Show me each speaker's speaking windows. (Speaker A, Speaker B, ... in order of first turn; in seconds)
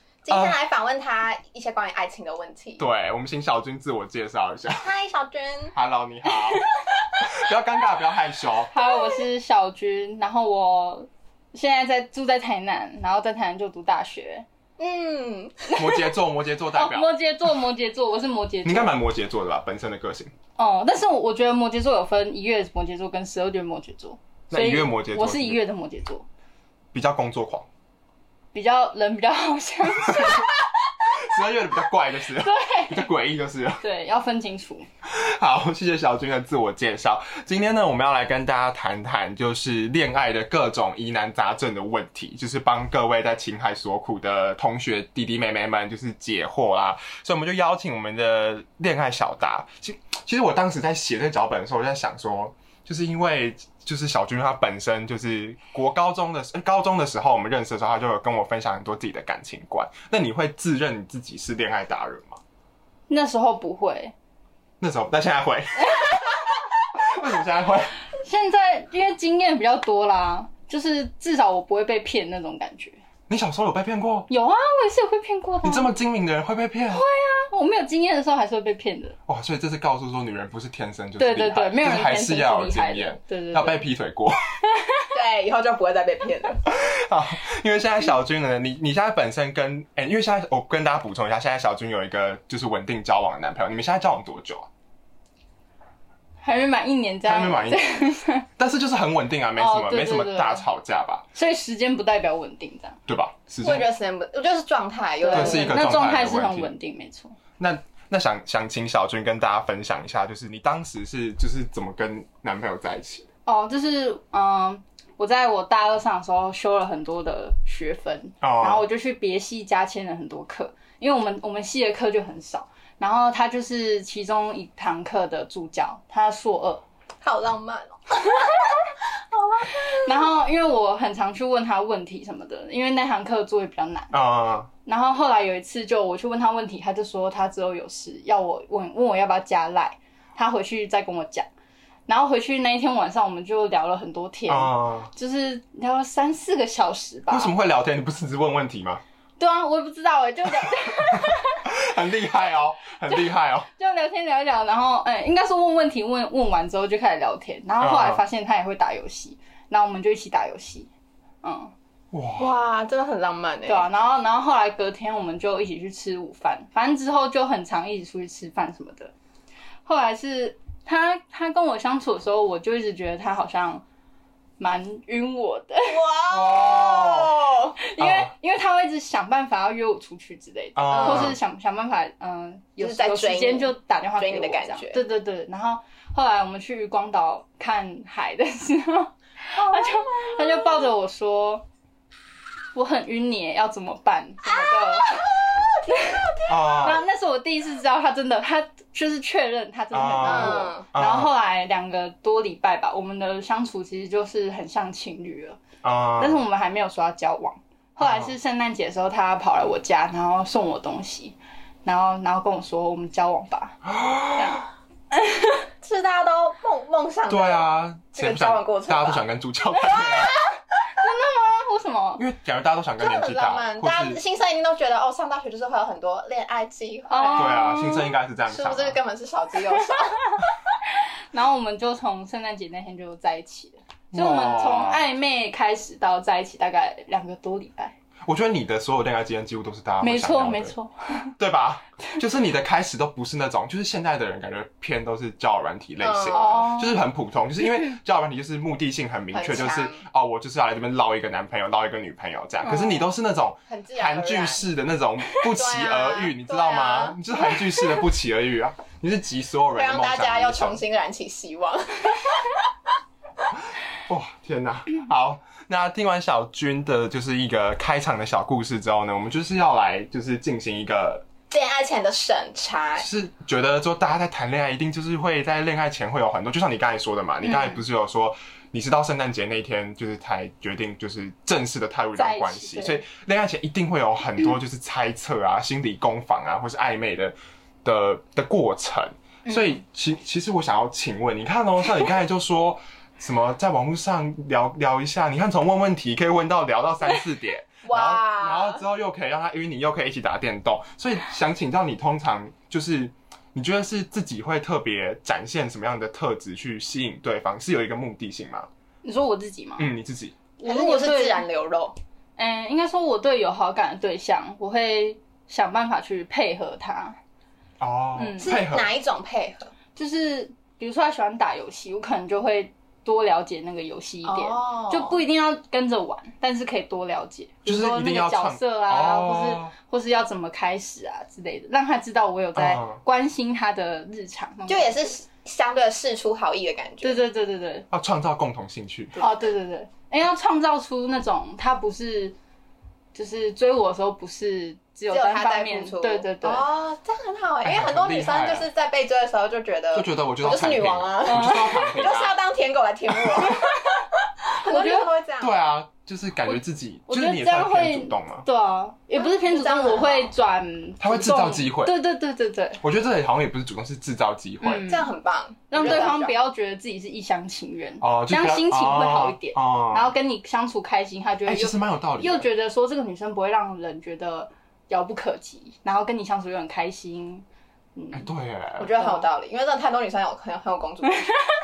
Speaker A: 0.2-2.8, 4.8-5.7, 8.7-9.2, 14.8-15.8, 85.1-86.6, 103.6-105.8, 127.2-130.3, 162.4-163.8, 175.8-177.8, 180.9-181.3, 182.8-185.0, 189.6-190.9, 194.5-196.9, 200.2-200.8, 215.8-219.2, 219.8-220.5, 223.0-227.7, 228.5-230.4, 246.0-246.6, 249.3-250.0, 253.7-254.6, 255.5-257.2, 259.7-262.6, 271.5-273.1, 297.9-298.8, 310.6-311.9, 318.4-319.7, 324.2-325.2, 334.7-337.2, 345.1-355.6, 359.1-360.3, 364.9-366.3, 378.8-381.3
Speaker B: 0.3-0.6, 2.8-4.9, 5.7-6.7, 7.2-8.7, 15.7-17.1, 18.6-20.3, 24.5-25.6, 26.9-27.7, 30.0-30.4, 31.1-33.8, 35.0-62.4, 64.8-66.3, 66.9-68.0, 73.3-74.3, 75.6-77.0, 79.3-84.4, 86.7-94.7, 97.2-97.8, 98.6-101.2, 103.1-103.9, 105.3-106.7, 107.6-113.3, 118.4-118.8, 134.1-134.7, 144.5-145.1, 147.3-149.0, 150.6-153.7, 157.8-158.2, 162.1-162.5, 176.3-177.4, 178.0-178.3, 180.8-181.4, 196.5-197.0, 199.9-201.3, 205.8-206.4, 208.0-208.3, 213.8-214.7, 217.3-220.4, 222.2-224.2, 227.3-229.0, 234.1-235.0, 238.2-240.7, 241.4-260.8, 264.1-271.2, 273.0-308.7, 309.8-310.4, 317.8-318.9, 327.6-329.7, 332.5-333.0, 337.9-339.2, 347.6-348.7, 349.9-352.4, 355.4-358.4, 361.0-361.9, 362.8-364.9, 365.8-366.2, 368.0-370.1, 371.4-372.5, 378.1-379.0
Speaker C: 8.7-14.4, 16.7-19.0, 20.6-26.2, 28.5-30.4, 32.4-33.1, 33.8-34.9, 63.1-64.1, 68.2-73.0, 74.3-76.0, 76.9-79.2, 81.2-83.8, 84.7-85.1, 96.4-98.5, 99.6-100.6, 101.3-103.0, 105.2-107.3, 113.5-126.8, 128.4-128.7, 129.9-134.1, 134.8-141.5, 142.1-147.5, 149.4-151.7, 153.1-160.9, 161.4-161.7, 163.7-169.1, 169.8-173.8, 174.6-176.0, 177.8-191.6, 192.7-195.3, 195.9-205.6, 206.2-215.7, 221.0-222.2, 227.1-228.1, 231.3-237.9, 240.0-241.3, 246.3-247.0, 252.6-253.1, 277.4-277.8, 282.1-283.0, 289.4-289.8, 309.0-309.9, 310.6-311.4, 312.4-317.2, 318.1-318.5, 319.9-335.1, 337.0-337.9, 339.2-342.4, 343.1-346.6, 351.2-352.0, 354.6-355.1, 356.4-362.8, 364.6-365.1, 365.7-378.3, 379.0-379.2